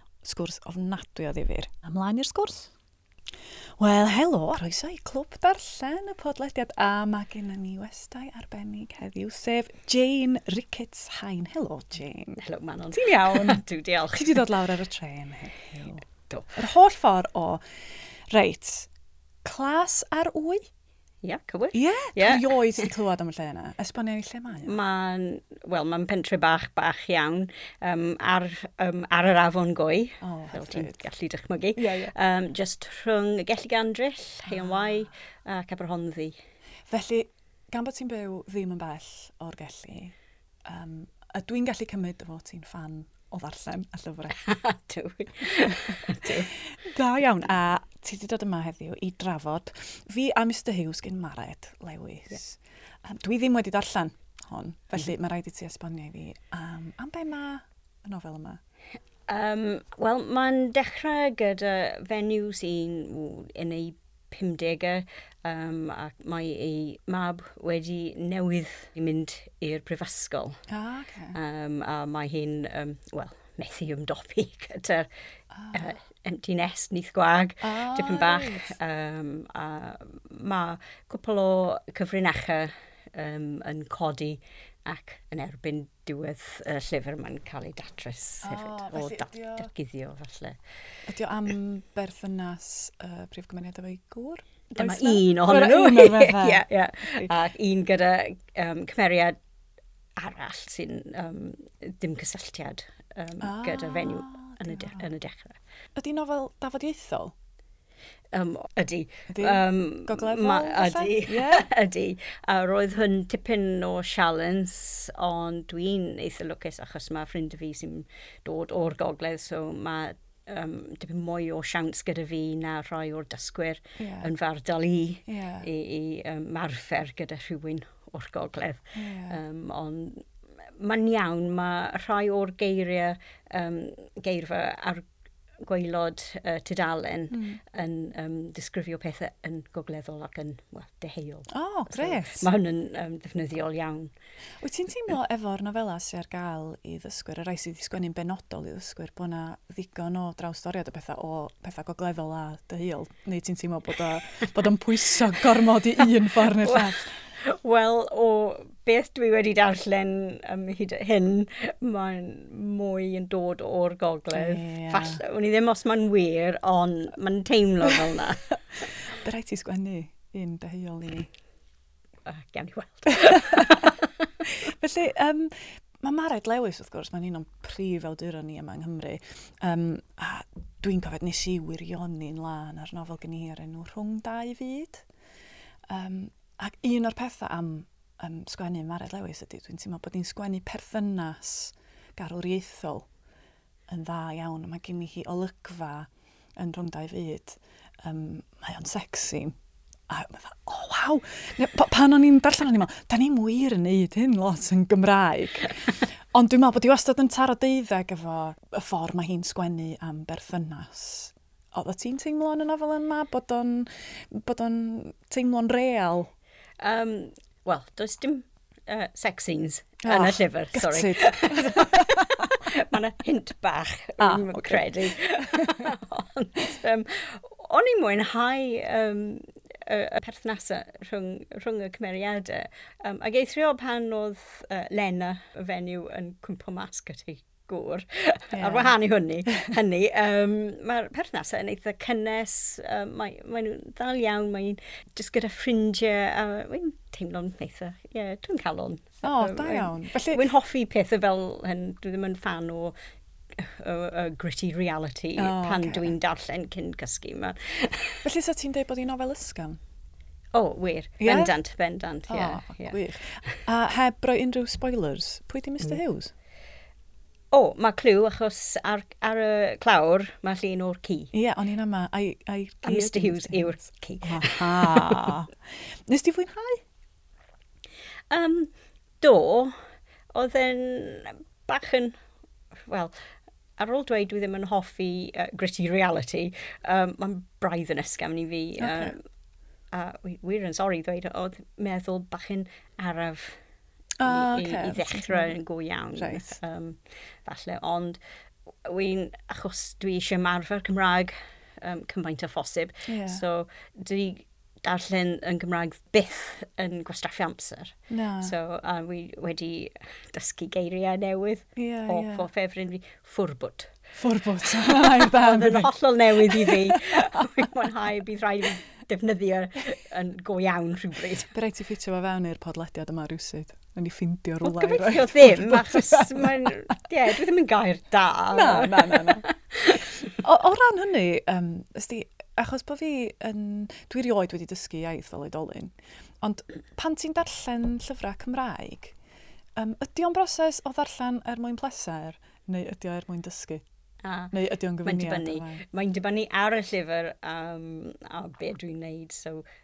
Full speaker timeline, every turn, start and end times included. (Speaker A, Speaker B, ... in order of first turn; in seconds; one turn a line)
Speaker A: 0.2-2.7
Speaker A: 3.8-12.4
Speaker B: 12.4-14.4
Speaker A: 12.9-13.6
Speaker A: 14.1-18.9
Speaker B: 16.3-16.5
Speaker A: 19.4-20.6
Speaker B: 21.2-22.9
Speaker A: 21.7-24.7
Speaker B: 24.6-36.4
Speaker A: 30.2-31.0
Speaker A: 31.8-32.1
Speaker A: 34.4-35.1
Speaker A: 36.9-44.4
Speaker B: 44.4-46.5
Speaker A: 46.1-58.6
Speaker B: 59.3-70.6
Speaker A: 70.7-71.3
Speaker B: 71.3-75.1
Speaker A: 75.5-75.9
Speaker B: 75.7-90.6
Speaker A: 77.6-78.7
Speaker A: 88.4-89.7
Speaker A: 91.1-97.3
Speaker B: 94.7-99.4
Speaker B: 100.2-105.6
Speaker A: 103.4-105.0
Speaker A: 106.0-107.3
Speaker B: 108.3-135.1
Speaker A: 109.3-111.7
Speaker A: 124.0-124.3
Speaker A: 125.3-125.7
Speaker A: 128.9-129.4
Speaker B: 135.6-144.1
Speaker A: 137.3-137.6
Speaker A: 141.5-142.4
Speaker A: 144.6-157.2
Speaker B: 156.6-168.5
Speaker A: 164.3-165.2
Speaker A: 169.1-171.3
Speaker B: 172.2-174.1
Speaker A: 173.1-173.9
Speaker A: 174.4-185.1
Speaker A: 185.9-193.1
Speaker A: 193.9-199.6
Speaker A: 200.1-216.3
Speaker B: 216.8-252.9
Speaker A: 220.0-222.5
Speaker A: 224.2-225.9
Speaker A: 238.5-238.9
Speaker A: 249.2-250.4
Speaker B: 253.5-258.2
Speaker A: 255.4-256.1
Speaker A: 258.2-259.8
Speaker B: 260.5-263.6
Speaker A: 261.2-261.5
Speaker A: 262.3-266.3
Speaker B: 267.5-271.3
Speaker A: 271.3-276.8
Speaker B: 272.8-275.3
Speaker B: 278.3-282.2
Speaker B: 282.9-283.1
Speaker B: 283.8-289.2
Speaker A: 288.8-289.1
Speaker B: 289.9-293.6
Speaker A: 294.2-295.6
Speaker B: 294.2-298.2
Speaker A: 296.1-296.6
Speaker B: 298.8-313.9
Speaker A: 303.1-303.4
Speaker A: 308.1-308.5
Speaker A: 311.8-312.4
Speaker A: 314.1-315.9
Speaker B: 314.8-321.5
Speaker A: 316.5-317.5
Speaker A: 321.5-326.7
Speaker B: 324.6-330.1
Speaker A: 328.5-329.4
Speaker A: 330.3-339.1
Speaker A: 339.8-343.8
Speaker B: 344.2-349.6
Speaker A: 344.5-345.8